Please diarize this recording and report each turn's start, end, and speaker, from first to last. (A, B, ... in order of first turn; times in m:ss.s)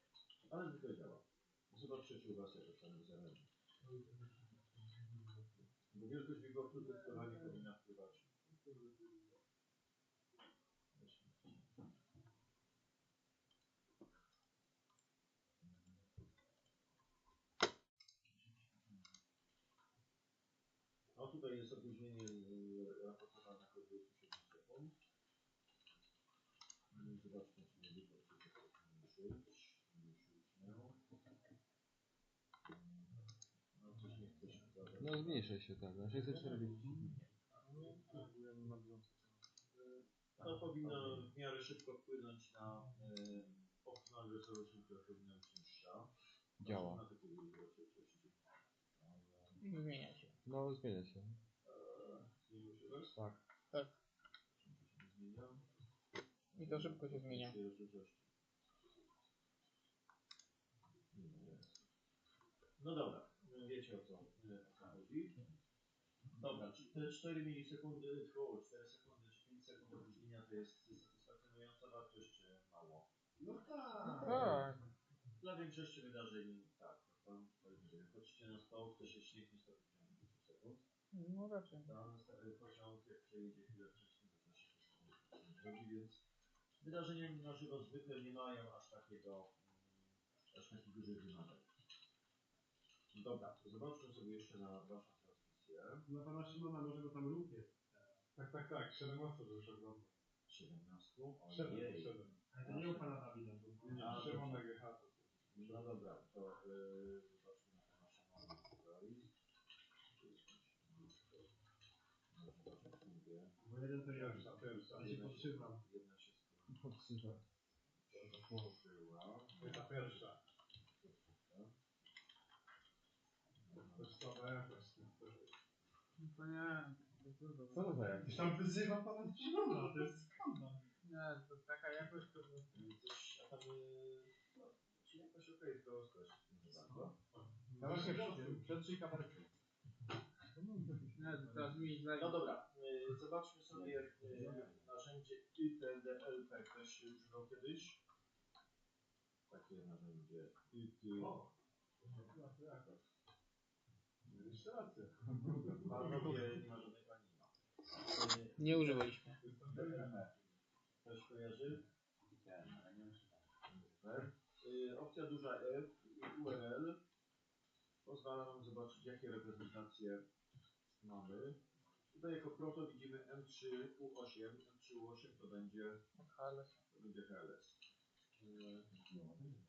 0:00.5-0:03.5 A
0:05.9-0:08.5 A
0:08.7-0:09.0 B
0:10.9-0:11.8 A
0:15.6-0:16.0 A
0:18.3-0:19.0 A
0:21.1-0:24.9 A
0:26.9-0:31.0 A
0:32.6-0:35.6 A
0:35.0-0:37.1 C
0:36.1-0:38.0 A
0:39.7-0:48.4 A
0:46.6-0:47.0 C
0:49.0-0:49.6 A
0:49.6-0:50.3 D
0:50.4-0:51.4 C
0:51.6-0:53.2 A
0:53.1-0:53.4 C
0:54.6-0:55.6 A
0:56.5-0:58.3 A
0:56.6-0:57.6 D
1:01.1-1:01.7 A
1:02.8-1:05.4 A
1:06.3-1:13.1 A
1:13.4-1:14.4 E
1:14.1-1:14.9 D
1:14.3-1:14.6 C
1:15.4-1:20.8 A
1:21.1-1:21.9 D
1:21.8-1:26.2 A
1:26.8-1:31.7 A
1:33.1-1:36.0 A
1:36.0-1:38.1 E
1:38.3-1:40.2 B
1:40.5-1:43.2 A
1:41.5-1:42.3 B
1:42.6-1:44.2 E
1:43.9-1:45.8 B
1:44.0-1:44.6 A
1:45.5-1:49.3 A
1:50.1-1:51.3 A
1:52.3-1:53.5 A
1:53.6-1:55.8 E
1:54.1-1:55.4 B
1:54.9-1:56.8 A
1:56.7-1:57.4 C
1:57.9-2:00.4 A
1:58.1-1:58.8 C
1:59.6-2:00.4 B
2:01.0-2:01.8 A
2:03.6-2:04.2 A
2:03.8-2:05.5 B
2:06.2-2:08.2 D
2:07.7-2:08.6 C
2:08.2-2:10.1 B
2:09.5-2:10.8 E
2:11.0-2:12.7 D
2:12.7-2:17.2 A
2:17.7-2:18.6 E
2:17.8-2:18.6 B
2:17.8-2:19.5 C
2:21.1-2:22.5 D
2:22.2-2:28.0 A
2:24.4-2:24.7 B
2:29.5-2:31.4 A
2:31.1-2:31.5 B
2:32.0-2:33.0 B
2:34.2-2:36.3 B
2:35.8-2:37.5 A
2:38.0-2:38.9 A
2:38.6-2:39.4 D
2:39.4-2:40.2 B
2:39.7-2:40.4 A
2:41.0-2:41.8 A
2:43.6-2:47.0 A
2:48.0-2:50.2 A
2:50.9-2:51.6 A
2:52.1-2:56.0 A
2:56.2-2:56.8 D
2:56.9-2:57.8 A
2:58.4-2:58.9 A
2:59.0-2:59.5 C